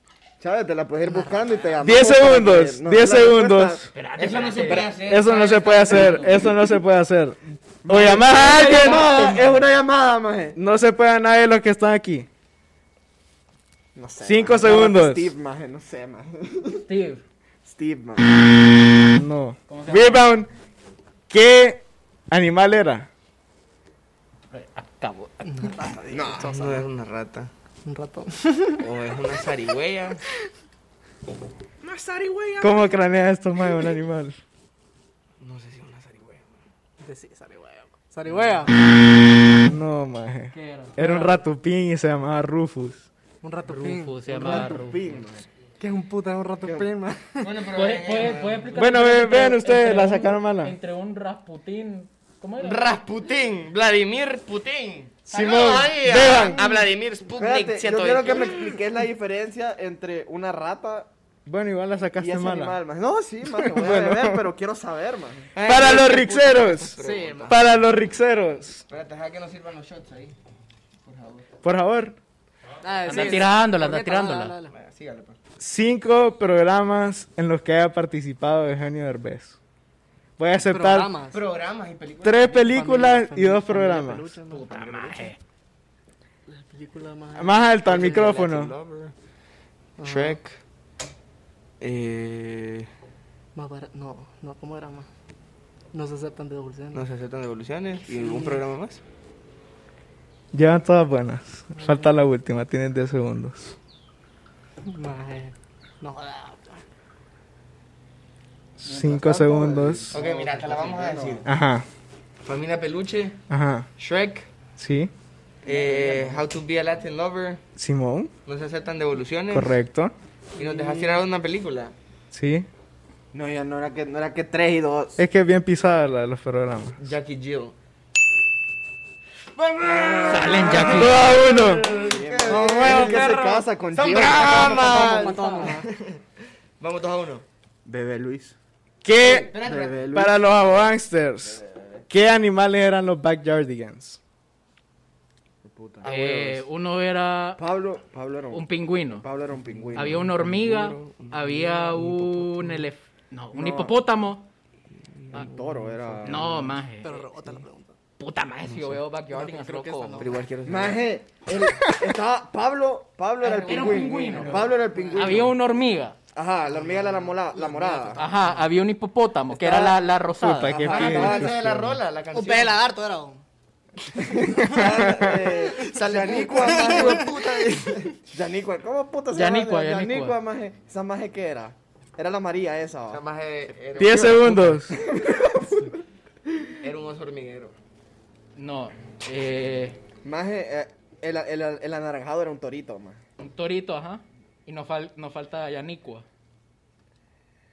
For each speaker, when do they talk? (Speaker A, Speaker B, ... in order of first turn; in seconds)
Speaker A: 0.4-3.9, 5.9-6.4, 7.8-10.6, 14.0-16.8, 17.6-18.2, 26.1-26.6, 31.9-32.9, 44.3-45.5, 46.6-46.9, 56.2-61.1, 62.2-65.5, 109.0-111.5, 115.6-116.4, 123.3-125.2, 129.6-135.8, 137.9-138.6, 139.2-140.8, 145.7-146.1, 147.6-150.2, 153.5-154.0, 155.3-156.7, 160.7-165.6, 166.3-168.3, 169.5-170.0, 170.7-171.6, 174.2-177.3, 178.2-183.2, 184.0-185.9, 190.2-193.2
Speaker B: 1.0-1.9, 25.4-26.9, 27.9-28.9, 37.0-38.7, 43.4-44.3, 45.8-47.5, 67.0-67.6, 72.8-74.7, 80.6-81.4, 82.6-85.3, 86.5-87.7, 90.0-90.4, 93.5-95.1, 95.9-97.0, 98.1-98.6, 101.8-102.2, 104.9-106.8, 120.6-121.2, 129.9-130.6, 132.4-133.3, 134.4-135.9, 156.9-157.9, 159.4-160.5, 166.8-168.7, 172.3-173.4, 175.8-176.0, 176.6-177.7
Speaker C: 1.8-3.9, 4.8-9.1, 10.6-12.3, 14.2-15.3, 19.1-20.5, 21.3-23.1, 32.6-34.4, 39.6-43.1, 48.8-50.8, 55.3-56.6, 61.5-62.8, 63.5-64.4, 65.7-68.8, 71.6-72.2, 75.6-79.6, 80.4-81.1, 82.2-84.3, 87.4-88.7, 100.5-103.8, 108.8-110.2, 111.4-111.8, 113.5-113.9, 114.8-115.1, 117.8-118.3, 119.5-120.1, 122.3-122.7, 125.2-127.1, 130.7-131.8, 139.0-139.5, 140.1-144.2, 170.4-171.9, 183.9-184.9
Speaker D: 3.9-4.9, 16.8-17.2, 19.7-20.3, 24.5-26.0, 40.5-41.4, 43.7-45.2, 47.7-52.9, 73.1-74.5, 84.5-85.4, 108.8-109.4, 130.3-131.3, 146.0-147.6, 148.5-149.3, 149.9-154.5, 156.2-157.2, 158.2-160.2, 163.4-166.2, 168.2-170.9, 179.3-180.4, 188.6-190.0, 193.4-196.3
Speaker E: 4.2-6.4, 8.5-9.6, 26.3-27.5, 28.8-30.2, 35.4-36.6, 38.3-38.6, 47.4-48.8, 52.6-58.9, 65.5-67.8, 68.9-70.4, 71.0-71.5, 73.1-73.4, 74.6-75.4, 81.3-82.7, 87.8-89.1, 90.0-90.6, 91.8-92.9, 96.9-99.0, 110.1-111.5, 112.4-113.4, 114.0-114.5, 115.6-117.6, 118.5-119.8, 120.5-121.9, 127.0-127.8, 130.3-136.2, 136.8-137.4, 139.5-140.0, 146.0-146.7, 149.8-152.9, 155.3-156.4, 158.6-161.1, 163.4-165.4, 166.9-167.3, 170.8-172.8, 174.7-178.1, 183.1-184.9, 186.8-187.7